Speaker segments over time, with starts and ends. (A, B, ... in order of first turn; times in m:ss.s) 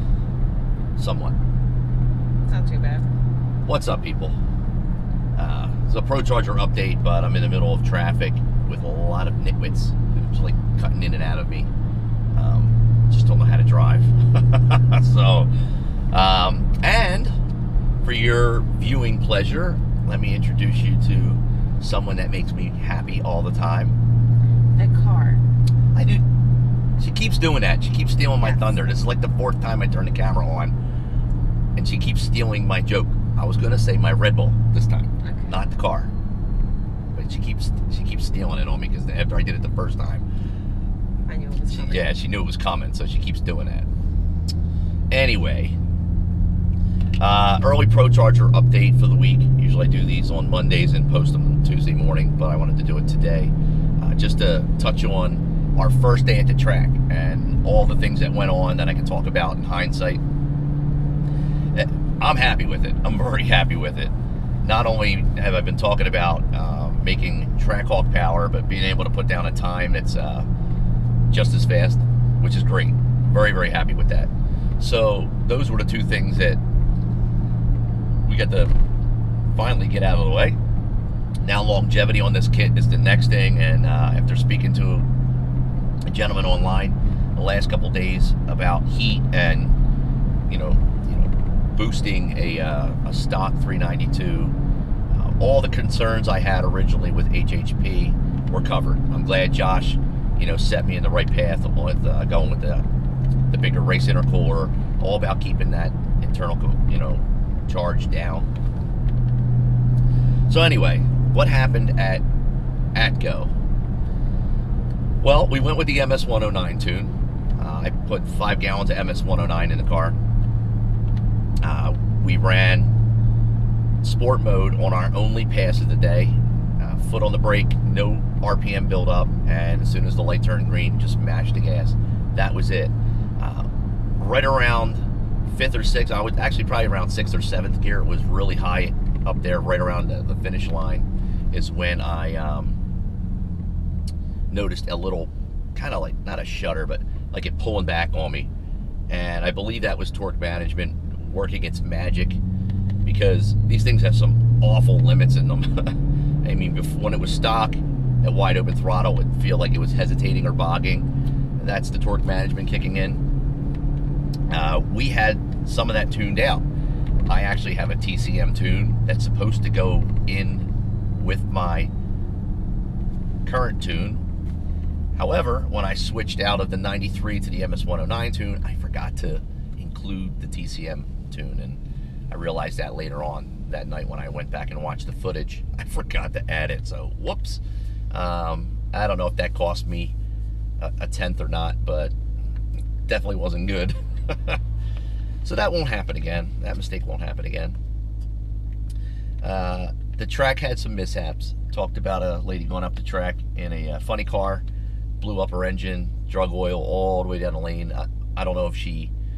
0:01.0-0:01.3 A
0:02.4-0:03.1 B
0:03.6-0:04.4 A
0:05.4-0:11.7 A
0:12.3-0:15.5 A
0:16.1-0:17.3 A
0:18.0-0:24.0 A
0:24.8-0:25.4 B
0:25.9-0:26.2 A
0:27.0-0:30.7 A
0:28.4-0:28.8 B
0:31.8-0:36.1 A
0:35.2-0:35.6 B
0:37.1-0:40.2 A
0:41.3-0:42.1 B
0:41.7-0:43.9 A
0:45.1-0:45.8 A
0:47.2-1:00.2 A
1:01.7-1:10.5 A
1:11.3-1:16.6 A
1:18.2-1:18.7 A
1:19.5-1:20.6 A
1:21.4-1:25.1 A
1:26.1-1:29.8 A
1:30.5-1:34.5 A
1:35.1-1:42.8 A
1:43.5-1:48.5 A
1:50.5-1:52.2 A
1:52.9-1:53.5 A
1:55.2-2:00.2 A
2:01.6-2:02.9 A
2:04.0-2:22.8 A
2:24.5-2:28.5 A
2:29.1-2:32.4 A
2:33.0-2:43.2 A
2:44.5-2:46.6 A
2:47.3-2:51.9 A
2:53.4-2:54.2 A
2:55.1-3:01.8 A
3:02.3-3:10.1 A
3:10.8-3:12.1 A
3:13.1-3:14.6 A
3:15.4-3:17.8 A
3:19.4-3:24.6 A
3:25.2-3:29.1 A